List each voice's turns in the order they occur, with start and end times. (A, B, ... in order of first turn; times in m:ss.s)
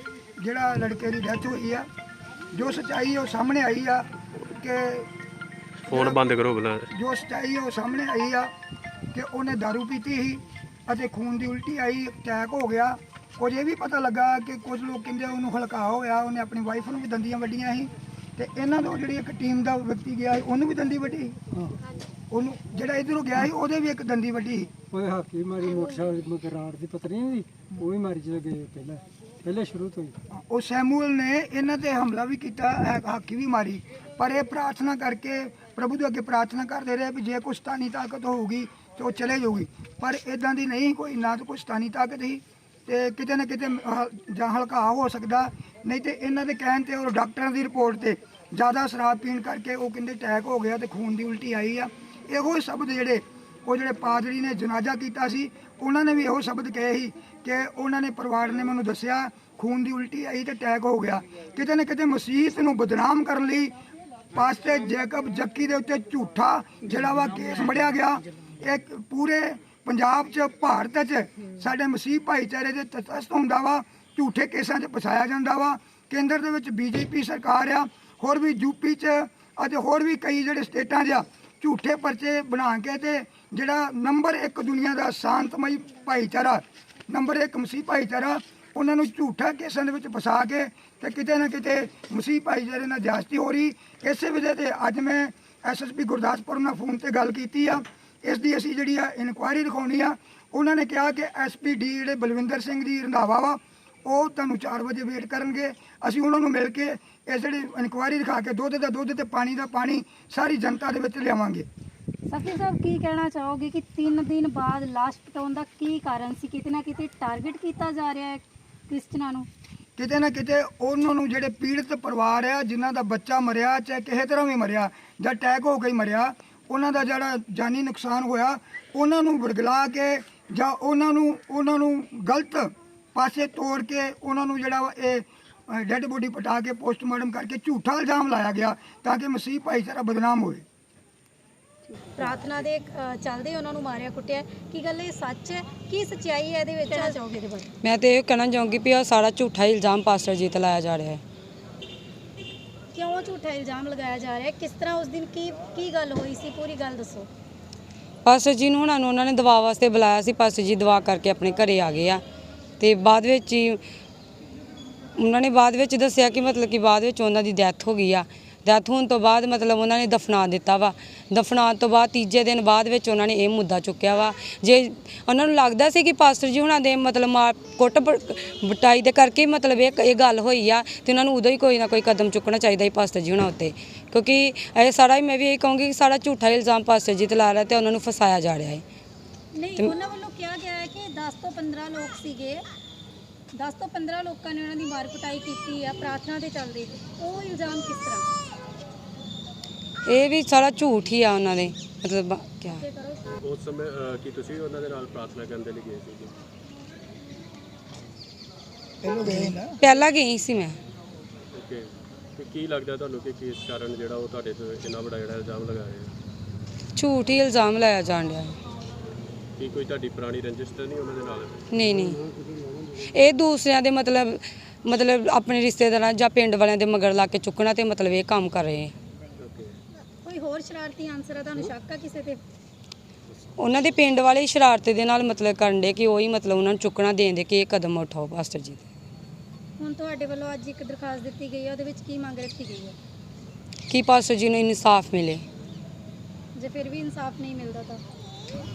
0:00.4-0:01.8 A
0:02.5-0:04.0 A
0:04.6-0:05.1 A
0:05.9-0:06.9 B
0:05.9-0:06.2 A
0:06.9-0:08.5 A
0:09.1-0:21.3 A
0:22.3-0:24.7 A
0:24.9-0:30.1 C
0:30.3-1:03.7 A
1:04.3-1:51.7 A
1:52.3-1:59.5 D
2:00.0-2:20.6 A
2:22.2-2:27.7 D
2:27.8-2:31.2 E
2:32.9-2:37.3 D
2:38.2-2:42.2 E
2:42.8-2:43.8 E
2:45.2-3:08.8 E
3:09.6-3:12.6 D
3:13.5-3:18.2 D
3:20.1-3:22.8 E
3:22.8-3:23.2 D
3:23.4-3:26.3 B
3:29.0-3:29.8 A
3:29.2-3:30.8 E
3:31.5-3:36.1 B
3:37.0-3:38.6 E
3:39.6-3:42.0 B
3:41.7-3:42.2 E
3:43.1-3:48.9 E
3:49.4-3:49.7 B
3:50.2-3:52.4 D
3:53.6-3:58.8 E
3:59.8-4:03.0 D
4:03.9-4:05.4 E
4:06.6-4:08.0 D